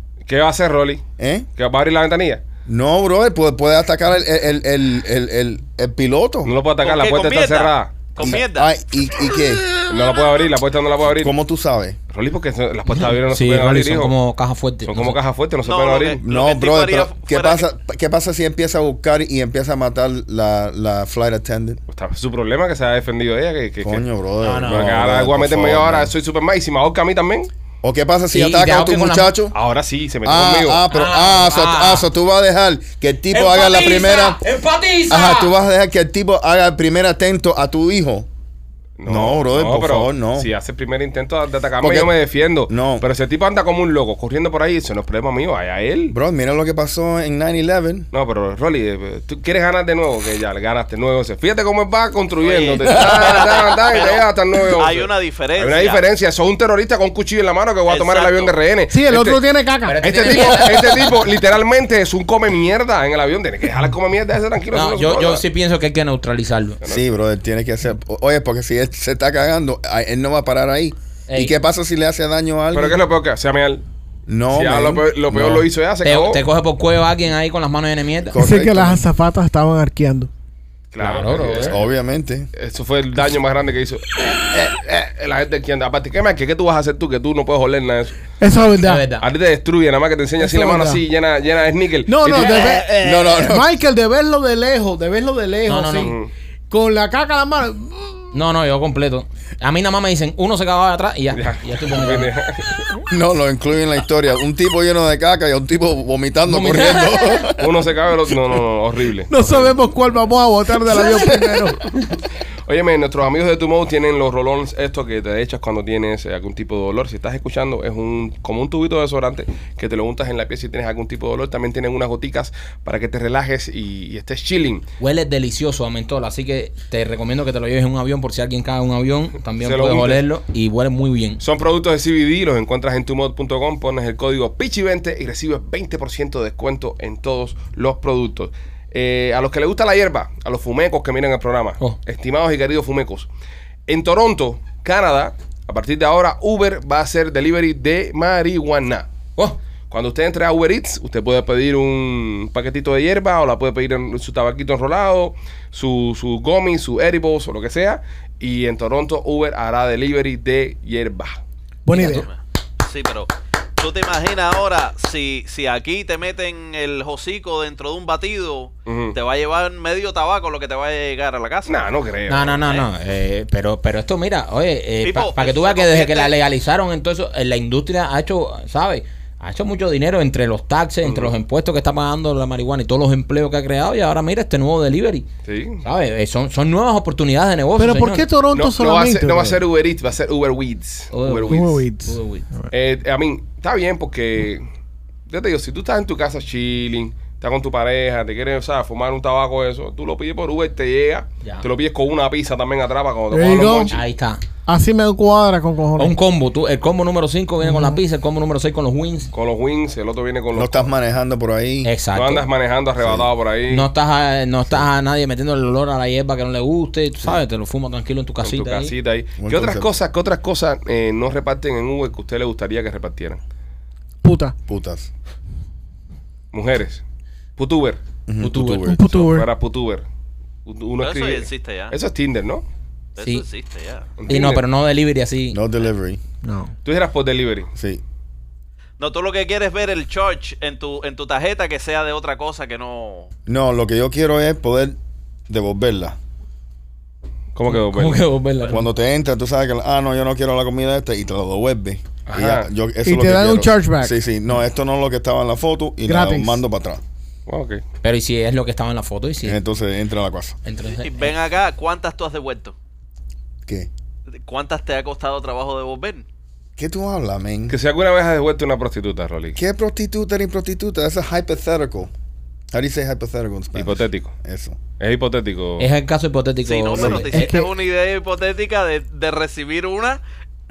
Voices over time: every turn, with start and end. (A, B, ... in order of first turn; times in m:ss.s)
0:00.3-0:01.0 A
0:01.2-0:01.5 B
0:01.6-0:02.4 A
0:02.7-0:06.5 B
0:06.4-0:08.4 A
0:06.8-0:08.7 C
0:08.2-0:09.6 B
0:09.9-0:11.3 A
0:11.2-0:12.0 B
0:12.1-0:14.2 A
0:13.0-0:15.2 D
0:14.8-0:16.2 A
0:15.6-0:17.7 C
0:16.2-0:21.8 B
0:21.9-0:24.1 A
0:23.8-0:26.1 B
0:24.4-0:24.9 D
0:24.7-0:27.5 A
0:27.8-0:29.6 B
0:28.3-0:29.3 D
0:29.5-0:30.8 A
0:30.2-0:34.4 B
0:30.9-0:32.1 D
0:33.3-0:35.5 D
0:35.1-0:38.3 B
0:39.0-0:46.2 A
0:39.1-0:40.5 B
0:41.8-0:42.1 B
0:42.7-0:43.0 B
0:46.1-0:48.1 B
0:48.1-0:59.4 A
0:52.4-0:56.0 C
0:57.9-0:58.6 C
0:58.9-1:00.6 E
0:59.8-1:01.1 D
1:00.0-1:05.4 A
1:04.7-1:06.8 D
1:06.9-1:13.0 B
1:11.3-1:11.5 D
1:12.7-1:13.8 A
1:14.3-1:15.7 B
1:14.5-1:16.4 A
1:16.0-1:18.4 D
1:18.3-1:19.1 B
1:18.4-1:20.3 E
1:20.9-1:21.8 A
1:21.0-1:21.8 D
1:21.6-1:22.5 B
1:22.6-1:28.2 A
1:28.4-1:29.1 E
1:28.8-1:29.2 D
1:29.2-1:32.8 A
1:30.4-1:31.0 E
1:32.1-1:36.2 E
1:33.0-1:33.7 B
1:35.7-1:36.2 D
1:36.0-1:36.3 A
1:36.7-1:38.2 E
1:38.3-1:42.3 D
1:41.3-1:42.7 A
1:43.1-1:47.9 B
1:46.5-1:47.5 D
1:47.6-1:49.6 A
1:49.3-1:51.8 E
1:50.9-1:51.7 B
1:52.7-2:04.9 A
2:05.0-2:11.4 D
2:09.6-2:10.2 A
2:11.4-2:23.3 A
2:23.9-2:29.1 A
2:29.9-2:41.4 A
2:41.9-2:42.3 E
2:41.9-2:42.3 D
2:41.9-2:51.9 C
2:48.9-2:49.2 A
2:51.7-2:52.6 A
2:52.3-3:05.3 D
2:55.0-2:56.4 C
3:01.0-3:01.3 A
3:05.4-3:05.8 A
3:05.8-3:08.3 D
3:07.8-3:09.6 E
3:08.5-3:11.8 A
3:11.1-3:12.5 D
3:11.5-3:12.7 E
3:12.7-3:14.7 A
3:15.3-3:24.0 A
3:23.3-3:24.0 E
3:23.9-3:24.4 D
3:24.7-3:26.2 E
3:26.0-3:29.3 D
3:27.6-3:28.0 E
3:29.3-3:30.9 A
3:30.5-3:31.9 B
3:31.8-3:32.5 D
3:32.1-3:33.9 A
3:33.0-3:33.3 B
3:33.7-3:38.9 D
3:38.4-3:43.4 A
3:39.4-3:39.9 B
3:44.2-3:44.6 E
3:44.7-3:45.1 B
3:46.5-3:47.0 A
3:47.6-3:48.0 A
3:48.3-3:49.0 B
3:48.4-3:48.8 D
3:48.8-3:49.5 E
3:48.8-3:50.0 A
3:50.7-3:52.6 A
3:51.0-3:51.9 C
3:53.2-3:54.1 C
3:53.2-3:53.4 D
3:54.2-3:54.6 A
3:54.3-3:55.6 D
3:55.5-3:56.2 B
3:56.4-3:56.7 E
3:56.8-3:57.7 A
3:57.8-3:58.0 B
3:59.0-4:03.3 C
4:03.5-4:05.0 B
4:05.5-4:06.2 B
4:07.6-4:08.2 A
4:07.7-4:08.9 D
4:08.7-4:17.0 B
4:12.3-4:12.7 A
4:13.0-4:14.1 E
4:16.1-4:16.6 E
4:17.5-4:17.8 A
4:18.0-4:19.6 D
4:19.4-4:20.6 B
4:20.6-4:21.3 D
4:20.9-4:22.8 C
4:24.4-4:26.3 C
4:26.8-4:27.8 B
4:27.7-4:29.6 A
4:29.6-4:32.1 B
4:32.7-4:34.8 B
4:33.8-4:34.3 A
4:35.0-4:35.9 A
4:35.8-4:37.6 D
4:36.6-4:40.2 C
4:37.0-4:37.7 E